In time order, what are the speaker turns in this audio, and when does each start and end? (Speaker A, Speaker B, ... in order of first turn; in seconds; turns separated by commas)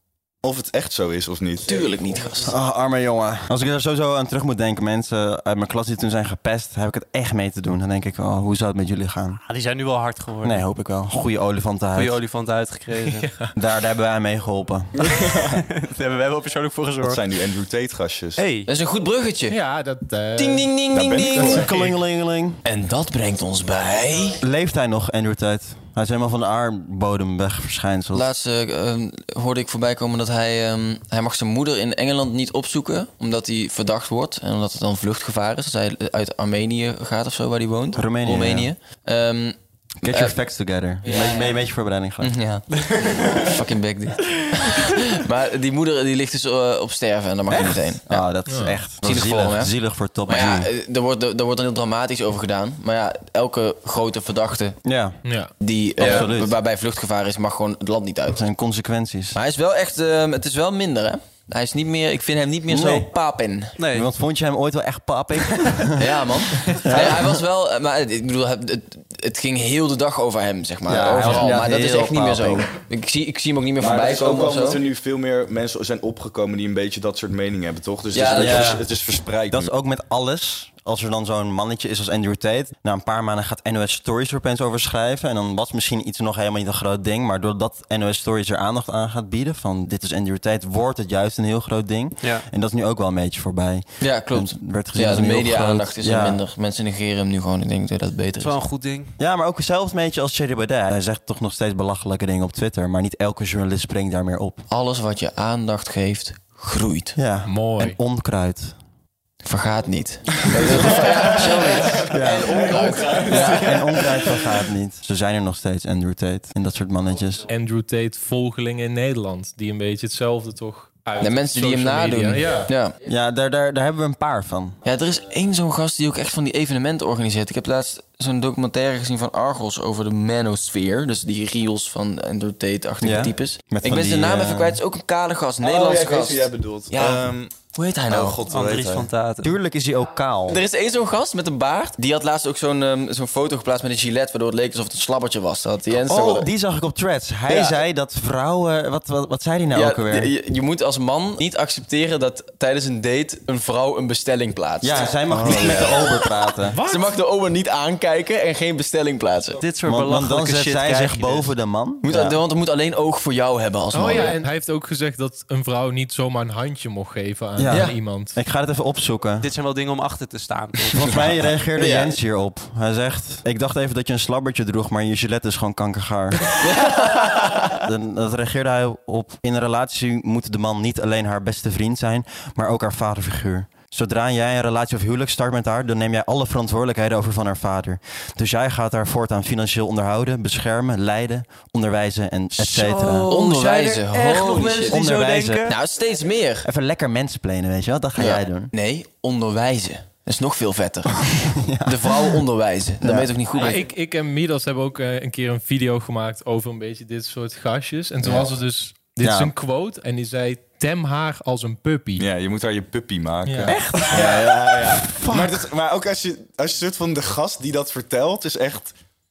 Speaker A: 0.4-2.4, Speaker B: 1.6-2.5, Speaker C: 2.4-9.4, Speaker D: 9.4-10.6, Speaker C: 10.4-12.2, Speaker D: 11.9-13.4, Speaker E: 13.1-13.5, Speaker C: 13.6-15.1, Speaker A: 15.0-15.6, Speaker D: 15.5-17.2, Speaker A: 17.0-18.4, Speaker D: 18.4-18.7, Speaker B: 18.6-19.6, Speaker E: 19.5-20.7, Speaker B: 20.4-21.7, Speaker A: 20.9-21.7, Speaker E: 21.3-21.9, Speaker C: 21.3-22.6, Speaker B: 22.6-24.4, Speaker C: 24.4-28.3, Speaker B: 28.1-40.4, Speaker C: 37.9-38.7, Speaker C: 40.0-42.3, Speaker B: 41.0-41.6, Speaker B: 42.2-48.2, Speaker C: 47.5-50.7, Speaker E: 48.5-48.8, Speaker B: 49.0-49.7, Speaker B: 50.2-54.8, Speaker C: 54.8-55.2, Speaker E: 55.2-55.5, Speaker B: 55.6-58.4, Speaker C: 56.0-56.5, Speaker C: 58.3-59.4, Speaker B: 59.3-63.8, Speaker C: 62.7-63.1, Speaker D: 63.8-64.1, Speaker C: 63.9-67.4, Speaker B: 66.0-74.8, Speaker C: 70.9-72.7, Speaker A: 73.8-79.7, Speaker B: 78.1-78.7, Speaker C: 78.3-78.9, Speaker D: 78.5-78.8, Speaker C: 79.5-96.4, Speaker D: 92.2-92.5, Speaker B: 94.0-98.6, Speaker D: 98.4-99.1, Speaker C: 99.2-104.7, Speaker B: 104.7-107.2, Speaker C: 107.2-108.7, Speaker E: 107.5-108.0, Speaker B: 109.4-114.0, Speaker C: 112.0-117.5, Speaker A: 112.4-113.8, Speaker E: 112.8-113.2, Speaker E: 117.5-122.7, Speaker B: 121.2-123.0, Speaker C: 123.0-124.8, Speaker B: 124.8-138.4, Speaker C: 133.0-134.8, Speaker A: 135.6-137.5, Speaker A: 138.1-139.1, Speaker D: 138.4-139.6, Speaker C: 139.4-140.6, Speaker B: 140.5-146.5, Speaker C: 146.1-150.3, Speaker B: 147.5-147.8, Speaker B: 149.7-156.3, Speaker C: 154.8-156.8, Speaker D: 155.3-155.6, Speaker E: 156.7-157.2, Speaker B: 156.8-159.6, Speaker D: 159.6-161.5, Speaker C: 159.8-162.4, Speaker B: 162.0-164.3, Speaker E: 163.9-168.4, Speaker C: 167.6-169.5, Speaker B: 167.7-168.0, Speaker D: 169.4-171.2, Speaker C: 170.9-176.6, Speaker B: 171.8-172.1, Speaker B: 176.6-177.6, Speaker C: 177.6-193.3, Speaker D: 192.5-195.7, Speaker B: 193.3-195.0, Speaker C: 194.8-195.8, Speaker B: 195.6-196.7, Speaker C: 196.6-198.7, Speaker B: 198.2-203.8, Speaker C: 201.2-202.4, Speaker C: 203.0-203.3, Speaker E: 203.5-212.3, Speaker C: 209.2-209.5, Speaker A: 212.2-218.9, Speaker E: 213.4-213.8, Speaker C: 213.6-215.7